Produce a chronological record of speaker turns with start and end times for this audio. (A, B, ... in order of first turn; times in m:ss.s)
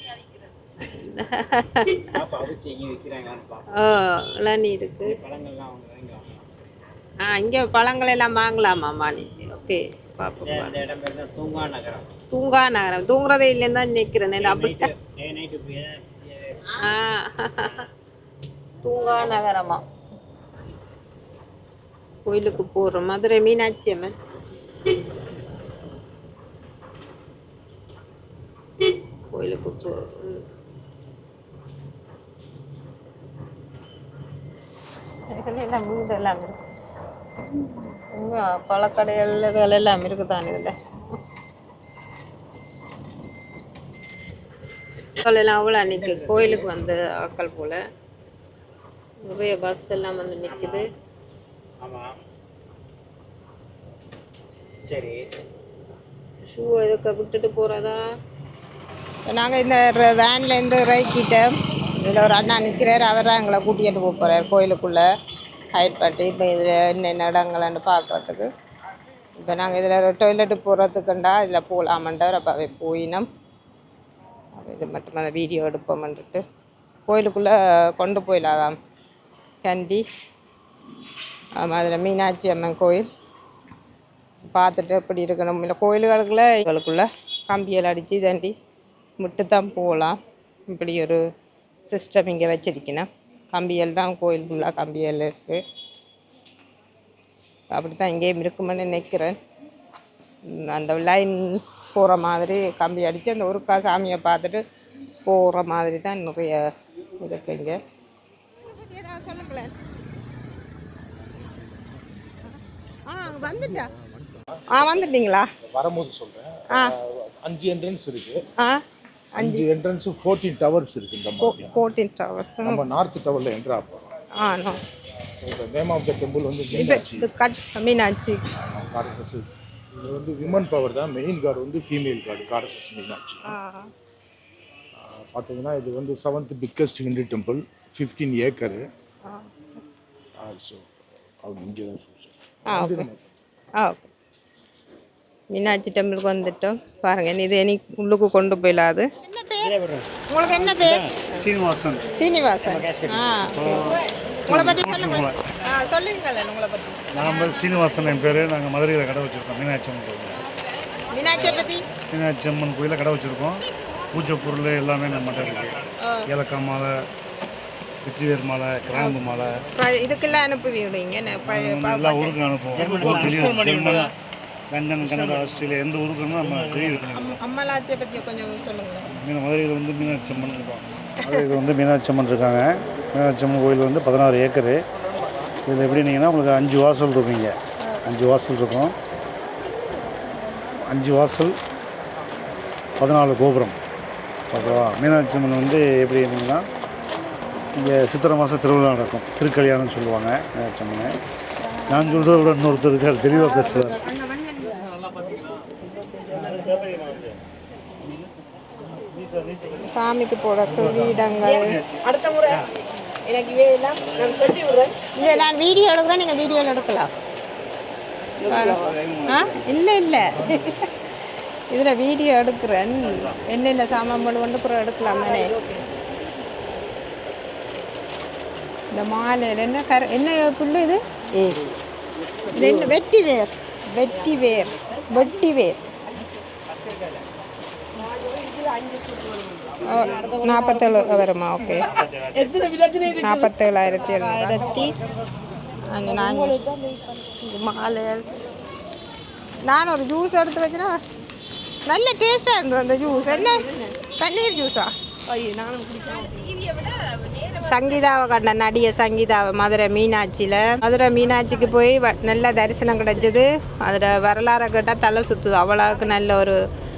0:00.8-0:02.2 A
0:02.1-0:03.7 B
0:03.8-0:05.2 A
0:05.0-0:06.9 B
0:07.2-0:10.8 A
0:10.4-0:12.1 B
0:12.3-0:14.9 A
0:14.4-0:16.8 B
0:16.7-0:17.8 A
0:18.8-0:19.8 A
0:22.2-0:24.1 A
0:29.2-0:30.4 A
0:35.3-0:36.6 A
0:38.1-0:40.8 A
0:45.2-0:47.8 A
0:45.8-0:46.7 B
0:49.2-0:50.9 A
0:50.4-0:50.8 B
0:51.8-0:52.1 B
0:54.9-0:55.2 B
0:56.5-0:58.0 A
0:59.3-1:05.0 A
1:05.8-1:08.5 A
1:09.4-1:13.3 A
1:14.6-1:16.4 A
1:17.1-1:18.8 A
1:19.6-1:20.0 A
1:21.6-1:23.1 A
1:24.5-1:28.5 A
1:29.2-1:30.2 A
1:30.7-1:31.2 A
1:31.9-1:35.6 A
1:37.7-1:39.4 A
1:40.5-1:44.6 A
1:45.3-1:46.6 A
1:47.2-1:47.8 A
1:48.6-1:49.7 A
1:53.1-1:53.9 A
1:54.7-1:55.5 A
1:55.7-1:58.4 C
1:59.4-1:59.7 A
1:59.4-2:01.8 C
2:01.4-2:02.8 A
2:02.6-2:04.1 C
2:04.4-2:04.8 A
2:05.4-2:07.3 C
2:06.7-2:08.4 A
2:08.6-2:13.5 C
2:13.5-2:13.9 A
2:15.0-2:18.8 C
2:20.4-2:23.2 C
2:22.7-2:23.1 A
2:23.8-2:24.1 A
2:25.5-2:29.7 A
2:29.6-2:31.4 B
2:30.3-2:31.0 A
2:31.4-2:32.0 D
2:32.1-2:37.8 A
2:32.6-2:33.5 B
2:33.6-2:33.9 D
2:34.5-2:35.4 D
2:37.2-2:40.4 D
2:41.1-2:41.8 A
2:42.1-2:45.8 D
2:46.3-2:47.0 D
2:48.0-2:49.5 D
2:49.8-2:52.4 A
2:51.5-2:54.1 D
2:52.7-2:54.1 B
2:52.9-2:53.7 E
2:54.7-2:57.2 D
2:57.1-2:59.1 A
2:59.1-3:04.8 D
3:05.6-3:09.0 D
3:10.8-3:11.6 D
3:13.0-3:13.8 D
3:14.5-3:16.7 D
3:17.8-3:21.2 D
3:21.9-3:24.0 D
3:23.9-3:24.8 A
3:24.8-3:25.7 B
3:26.3-3:27.2 E
3:26.5-3:27.2 D
3:29.8-3:31.8 A
3:32.5-3:32.7 B
3:33.6-3:34.6 E
3:35.1-3:37.1 A
3:38.4-3:41.1 A
3:38.9-3:39.5 D
3:41.7-3:45.8 A
3:48.9-3:51.5 A
3:52.5-3:55.9 A
3:56.7-3:57.3 B
3:59.8-4:00.3 B
3:59.8-4:02.0 A
4:03.1-4:04.9 A
4:05.9-4:06.7 A
4:07.3-4:08.3 A
4:09.6-4:11.0 A
4:11.9-4:14.9 A
4:15.8-4:16.1 E
4:17.4-4:26.6 A